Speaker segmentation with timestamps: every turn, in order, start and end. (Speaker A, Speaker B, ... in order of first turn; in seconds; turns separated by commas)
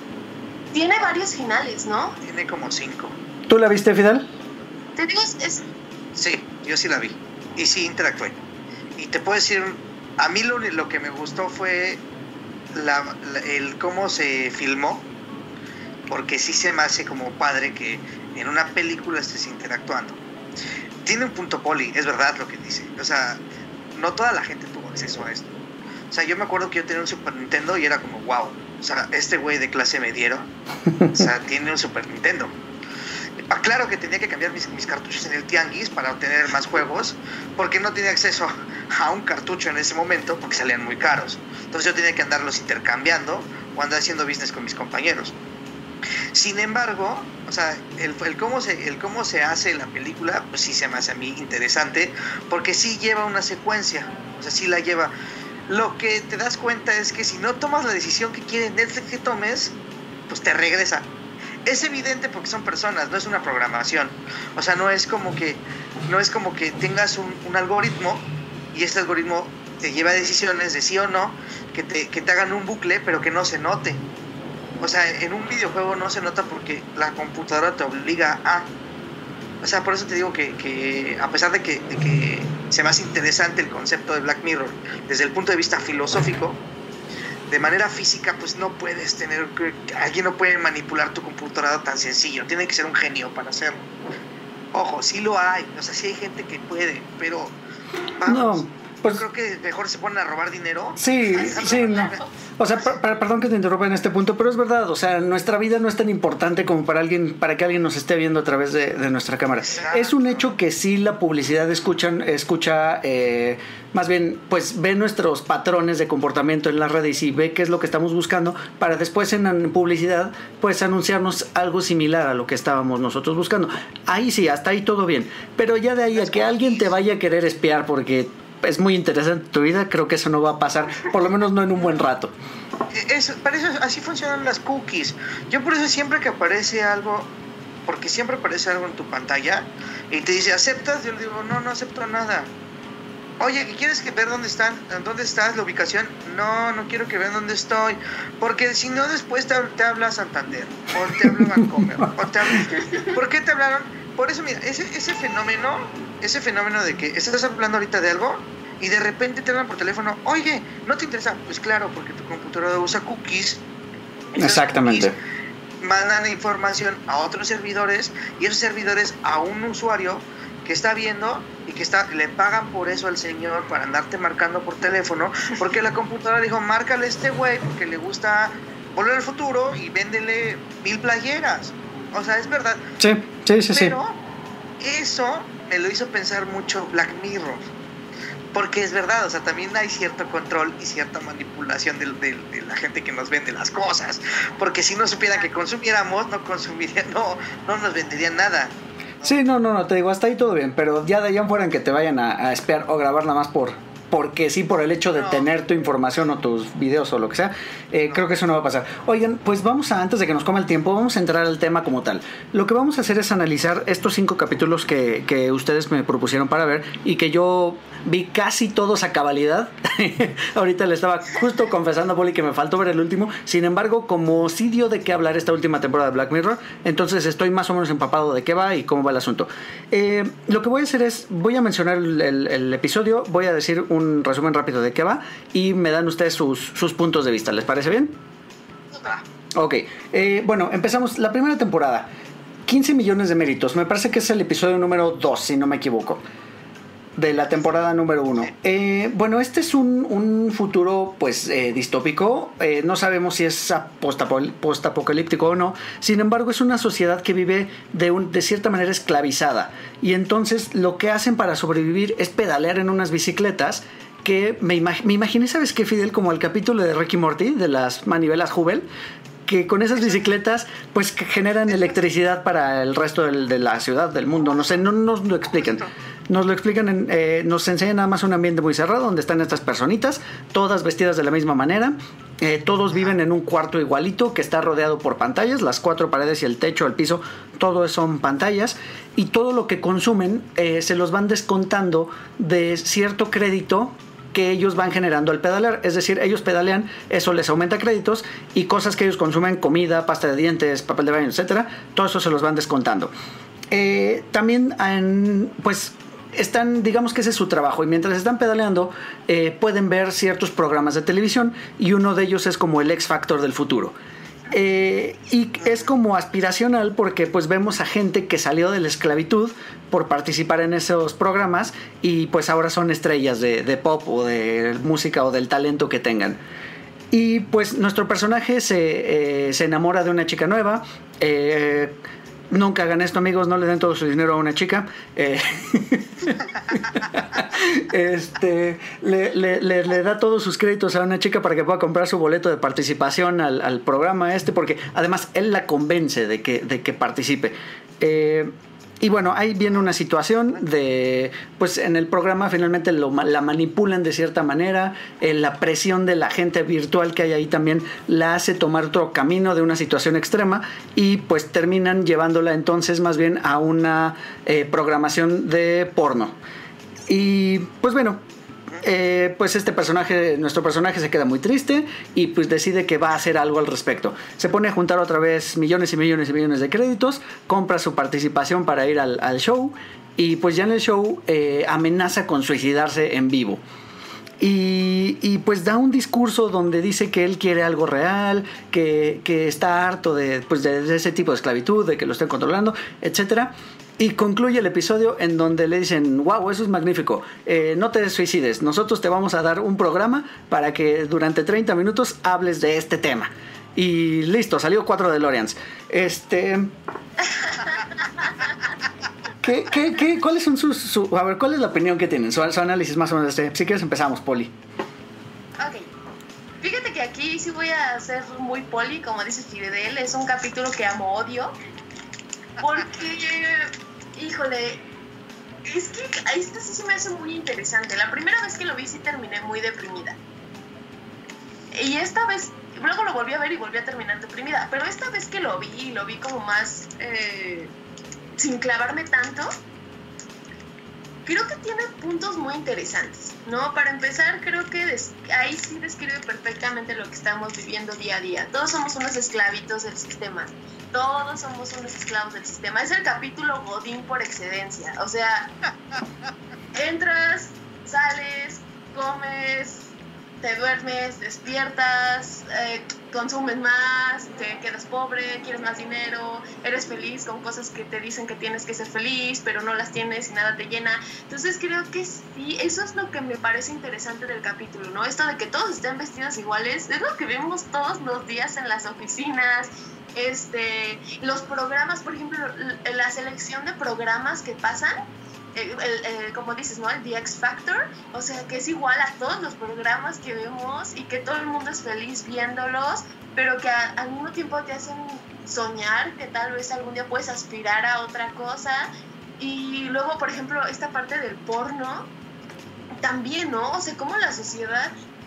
Speaker A: 0.7-2.1, Speaker B: 2.2-3.1, Speaker C: 3.5-4.3, Speaker A: 5.0-5.6, Speaker B: 6.1-8.4, Speaker B: 9.0-12.0, Speaker B: 12.7-15.0, Speaker B: 16.1-20.2, Speaker B: 21.0-23.4, Speaker B: 23.9-25.6, Speaker B: 26.1-30.5, Speaker C: 30.9-31.3, Speaker B: 31.1-32.5, Speaker B: 33.5-45.3, Speaker B: 46.3-55.1, Speaker B: 55.7-59.7, Speaker B: 60.3-61.1, Speaker B: 61.6-74.0, Speaker B: 74.8-78.7, Speaker B: 79.6-86.6, Speaker B: 87.5-93.8, Speaker B: 94.7-97.5, Speaker B: 98.2-102.2, Speaker C: 98.2-99.2, Speaker C: 101.0-132.3, Speaker A: 101.3-102.3, Speaker B: 109.6-110.5, Speaker B: 126.1-126.9, Speaker B: 132.9-137.3, Speaker B: 137.9-142.5, Speaker B: 143.4-163.6, Speaker B: 164.3-165.1, Speaker C: 164.4-165.1, Speaker B: 165.8-182.8, Speaker C: 183.0-183.9, Speaker B: 183.7-184.2, Speaker B: 184.8-187.7, Speaker B: 188.5-199.4, Speaker C: 199.2-238.2, Speaker B: 205.1-205.5, Speaker B: 208.1-208.3, Speaker C: 239.5-242.1, Speaker C: 242.7-246.2, Speaker C: 247.2-268.9, Speaker C: 269.5-303.1, Speaker B: 275.5-275.9, Speaker C: 303.7-313.9, Speaker C: 314.5-326.4, Speaker C: 327.1-331.9, Speaker C: 332.5-366.4, Speaker B: 349.7-350.7, Speaker C: 367.1-368.2, Speaker C: 368.8-383.6, Speaker C: 384.4-406.7, Speaker A: 407.4-408.3, Speaker C: 409.4-414.5, Speaker A: 415.6-415.9, Speaker A: 416.6-421.5, Speaker A: 422.6-424.8, Speaker A: 425.7-430.2, Speaker A: 431.7-437.7, Speaker A: 438.4-439.5, Speaker A: 441.2-455.5, Speaker A: 456.7-502.1, Speaker A: 503.0-504.9